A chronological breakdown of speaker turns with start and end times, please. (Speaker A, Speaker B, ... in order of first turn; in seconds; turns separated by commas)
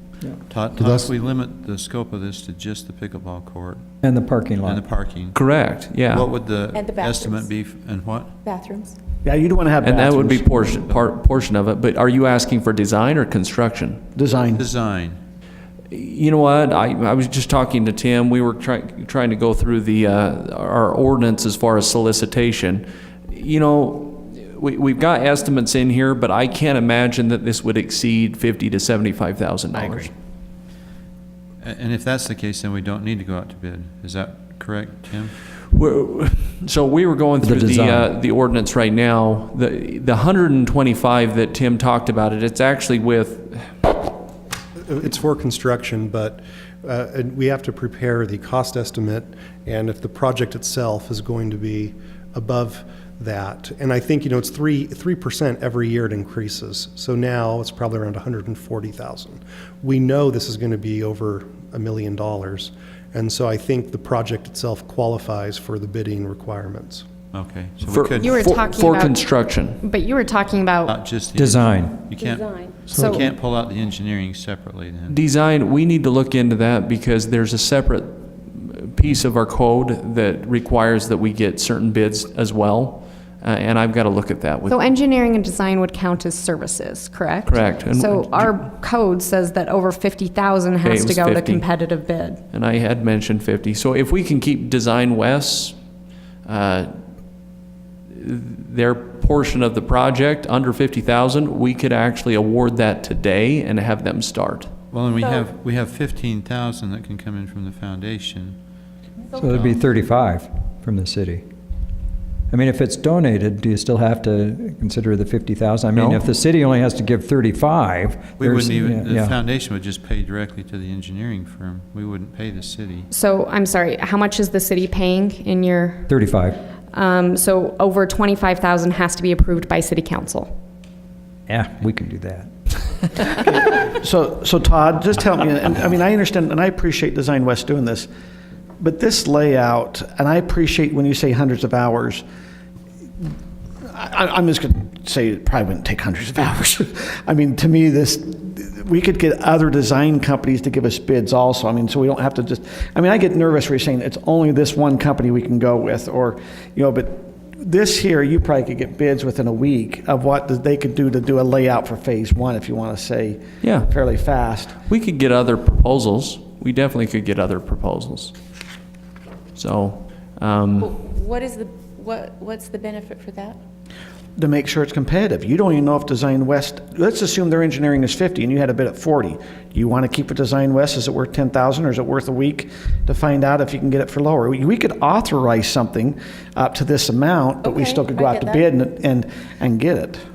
Speaker A: 0.5-3.8, Speaker B: 4.0-4.8, Speaker A: 4.6-5.4, Speaker C: 5.3-6.3, Speaker A: 6.0-8.3, Speaker D: 6.7-7.5, Speaker D: 8.4-9.0, Speaker E: 9.2-10.5, Speaker C: 9.8-14.0, Speaker A: 10.6-11.1, Speaker E: 14.2-14.6, Speaker A: 14.5-15.2, Speaker C: 15.9-30.1, Speaker E: 29.8-30.0, Speaker A: 31.6-35.3, Speaker C: 35.7-43.7, Speaker B: 37.4-38.1, Speaker F: 44.8-67.0, Speaker A: 67.3-68.5, Speaker C: 67.9-69.8, Speaker G: 68.2-71.0, Speaker A: 70.9-75.2, Speaker B: 71.3-71.9, Speaker D: 72.2-72.8, Speaker G: 72.9-73.3, Speaker C: 75.1-84.8, Speaker G: 84.7-92.4, Speaker C: 87.5-88.5, Speaker C: 90.8-91.7, Speaker C: 92.5-95.8, Speaker C: 96.4-96.9, Speaker C: 98.1-104.7, Speaker A: 104.9-108.6, Speaker D: 105.2-105.5, Speaker B: 109.4-111.4, Speaker B: 112.5-119.4, Speaker A: 115.9-116.2, Speaker A: 118.4-123.1, Speaker G: 123.1-126.1, Speaker B: 126.1-126.6, Speaker G: 126.9-130.5, Speaker B: 131.5-132.5, Speaker E: 133.6-138.1, Speaker E: 138.8-142.2, Speaker E: 143.8-164.7, Speaker C: 163.6-163.9, Speaker C: 164.8-168.3, Speaker C: 169.5-170.9, Speaker D: 170.8-173.6, Speaker E: 174.3-190.2, Speaker D: 187.6-188.7